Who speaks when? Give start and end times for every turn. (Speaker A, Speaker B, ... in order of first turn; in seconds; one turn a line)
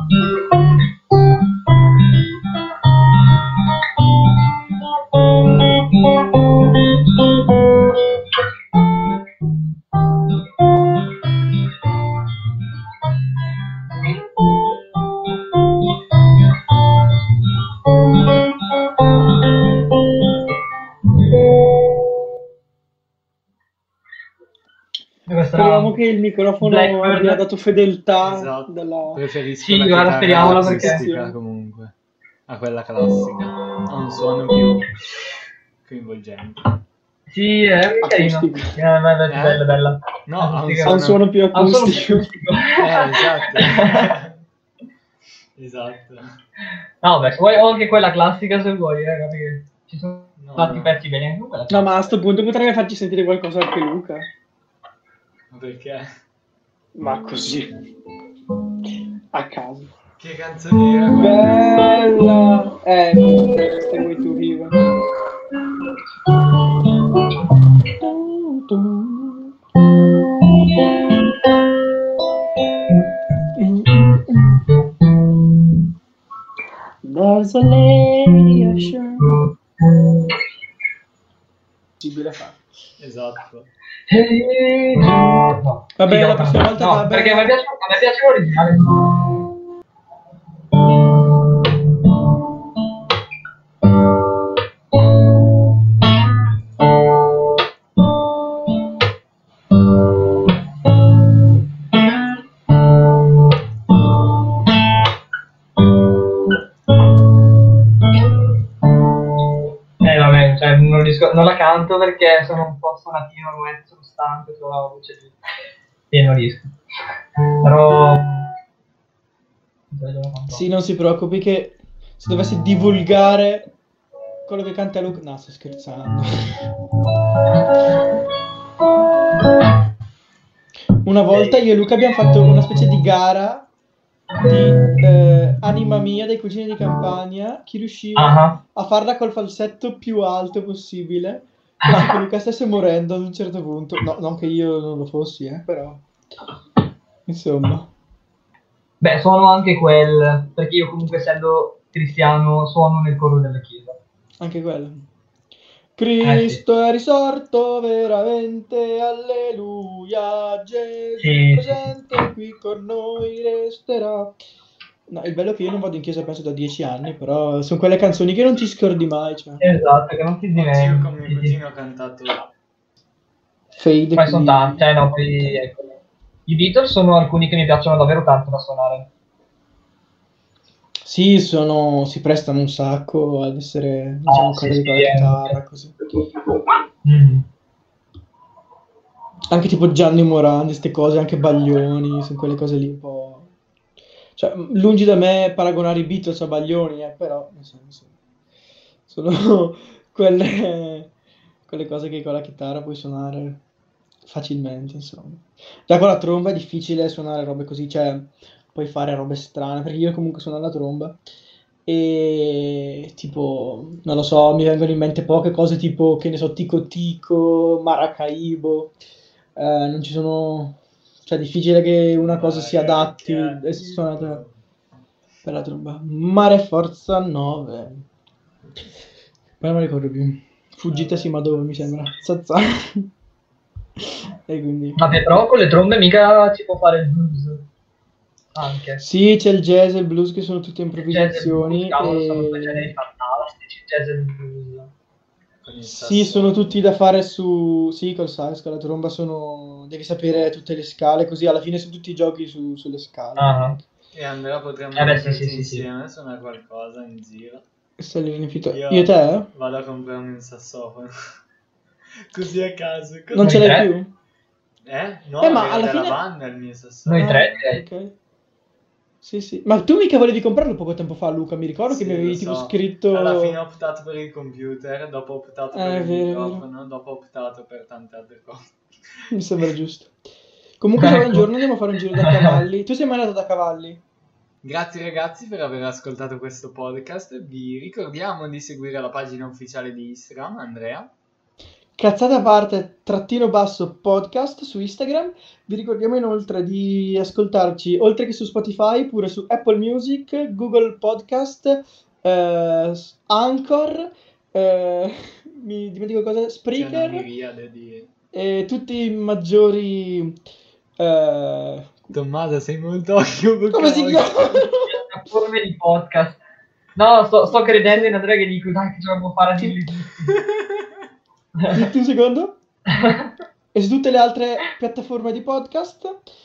Speaker A: 25.3-25.9
Speaker B: 25.5-29.2
Speaker A: 26.6-27.4
Speaker C: 28.2-31.9
Speaker A: 29.6-31.0
Speaker B: 30.4-31.3
Speaker C: 32.5-35.3
Speaker C: 35.8-36.7
Speaker A: 37.3-42.8
Speaker B: 38.0-38.8
Speaker C: 39.3-39.6
Speaker C: 40.3-41.2
Speaker B: 40.9-42.3
Speaker C: 42.8-44.4
Speaker A: 43.5-44.0
Speaker C: 45.6-46.2
Speaker A: 47.0-51.9
Speaker C: 50.4-51.0
Speaker B: 51.7-54.2
Speaker C: 55.5-56.0
Speaker B: 57.0-57.7
Speaker B: 59.3-59.9
Speaker C: 60.2-61.5
Speaker B: 61.1-64.7
Speaker B: 68.0-69.5
Speaker B: 73.5-74.5
Speaker B: 77.0-79.2
Speaker B: 82.0-82.6
Speaker C: 83.0-83.7
Speaker A: 84.1-89.2
Speaker B: 86.0-87.5
Speaker A: 110.0-115.3
Speaker A: 116.1-116.7
Speaker A: 117.6-118.5
Speaker A: 119.9-120.7
Speaker B: 120.5-123.7
Speaker B: 124.5-126.6
Speaker B: 131.0-133.6
Speaker B: 134.4-146.0
Speaker A: 138.2-138.6
Speaker A: 141.8-142.2
Speaker B: 147.3-147.9
Speaker A: 149.0-154.0
Speaker B: 154.4-155.0
Speaker B: 155.9-164.3
Speaker A: 156.2-156.6
Speaker A: 161.2-161.9
Speaker B: 165.1-169.6
Speaker A: 169.6-171.5
Speaker C: 170.5-172.5
Speaker B: 173.7-174.8
Speaker A: 174.2-179.1
Speaker B: 181.0-185.9
Speaker A: 184.3-185.6
Speaker A: 186.2-186.4
Speaker A: 187.0-187.4
Speaker B: 189.5-193.5
Speaker B: 194.3-198.1
Speaker B: 199.1-201.1
Speaker B: 201.7-203.6
Speaker B: 204.2-211.2
Speaker B: 211.8-218.9
Speaker B: 219.6-224.4
Speaker C: 222.2-224.5
Speaker B: 225.4-228.0
Speaker B: 229.6-233.1
Speaker C: 230.9-232.0
Speaker B: 234.5-235.0
Speaker A: 234.9-237.6
Speaker A: 238.5-239.0
Speaker B: 239.0-242.9
Speaker A: 241.0-244.9
Speaker C: 245.6-246.8
Speaker B: 245.9-253.7
Speaker A: 253.4-253.8
Speaker C: 254.1-257.6
Speaker A: 254.9-255.8
Speaker B: 258.0-259.5
Speaker C: 258.7-261.1
Speaker C: 262.3-263.6
Speaker B: 263.3-264.1
Speaker A: 263.4-263.9
Speaker C: 264.8-267.6
Speaker B: 265.4-266.2
Speaker A: 267.1-267.8
Speaker B: 267.2-268.1
Speaker B: 269.2-273.6
Speaker C: 271.9-279.3
Speaker B: 275.7-276.6
Speaker B: 279.3-280.1
Speaker B: 280.8-284.0
Speaker A: 281.0-281.4
Speaker A: 282.2-282.6
Speaker C: 284.6-291.1
Speaker B: 292.0-307.3
Speaker C: 306.7-308.1
Speaker B: 308.3-310.4
Speaker B: 311.0-312.1
Speaker C: 312.1-314.6
Speaker B: 313.7-314.9
Speaker A: 314.9-316.4
Speaker A: 316.9-320.3
Speaker B: 317.5-318.1
Speaker B: 321.7-322.5
Speaker A: 323.0-323.3
Speaker B: 323.7-326.1